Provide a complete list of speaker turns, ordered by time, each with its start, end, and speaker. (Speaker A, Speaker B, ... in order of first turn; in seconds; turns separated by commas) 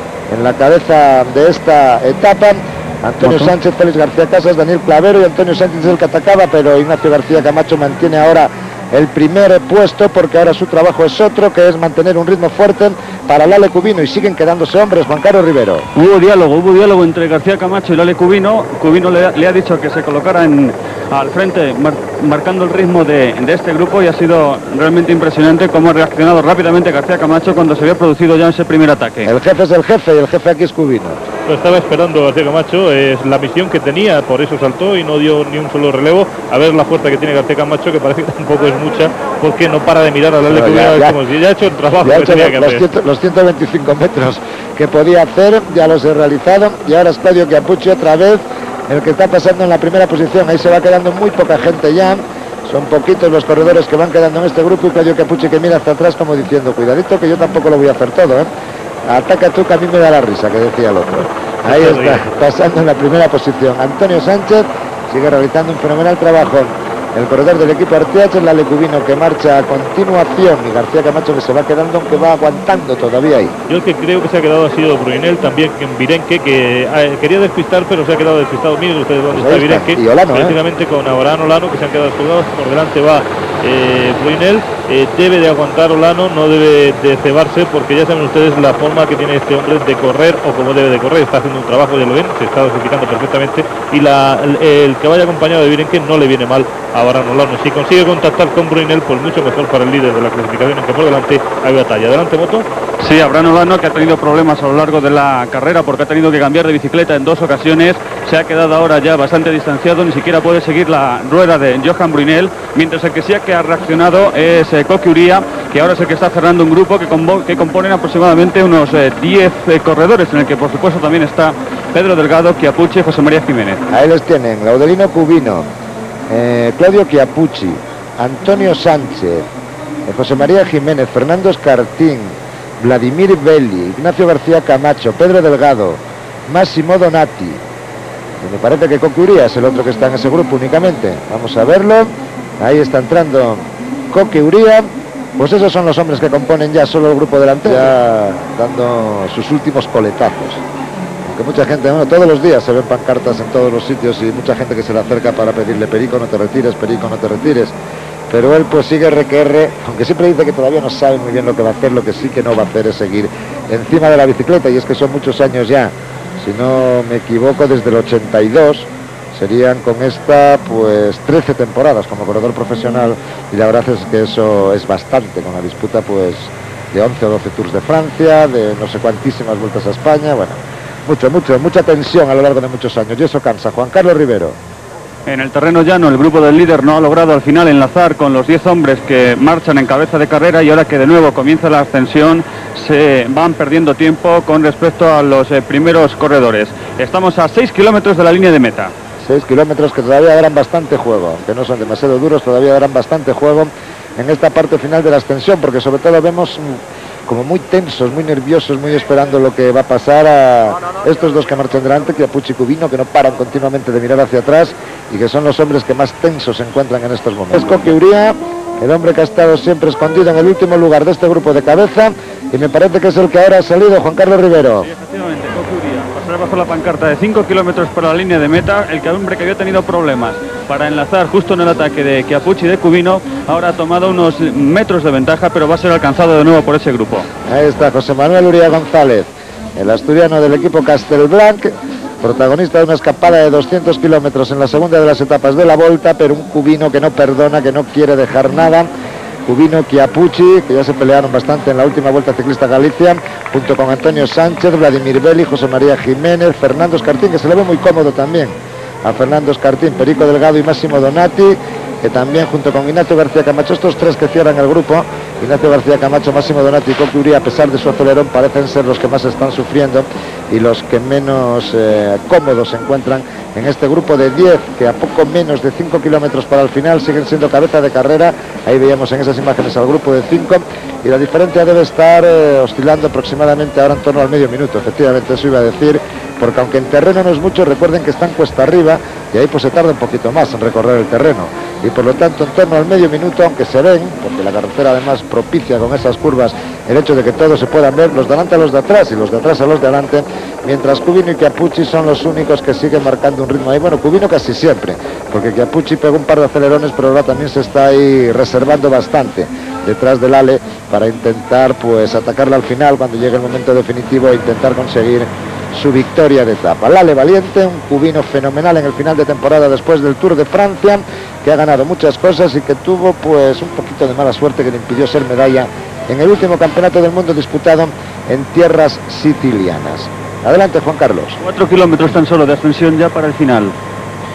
Speaker A: 0.3-15.9, Speaker B: 15.9-29.3, Speaker A: 29.2-31.2, Speaker C: 31.5-42.8, Speaker A: 40.5-41.1, Speaker A: 42.0-58.5, Speaker A: 59.0-73.5, Speaker C: 61.6-62.2, Speaker C: 73.7-102.7, Speaker A: 79.3-80.5, Speaker B: 103.0-123.8, Speaker A: 123.9-125.7, Speaker A: 126.3-129.5, Speaker A: 130.1-137.6, Speaker A: 138.4-150.6, Speaker A: 151.2-157.7, Speaker A: 158.3-184.6, Speaker B: 185.3-198.9, Speaker A: 199.2-224.9, Speaker B: 224.8-237.3, Speaker A: 237.5-248.9, Speaker A: 249.4-331.4, Speaker B: 331.4-333.7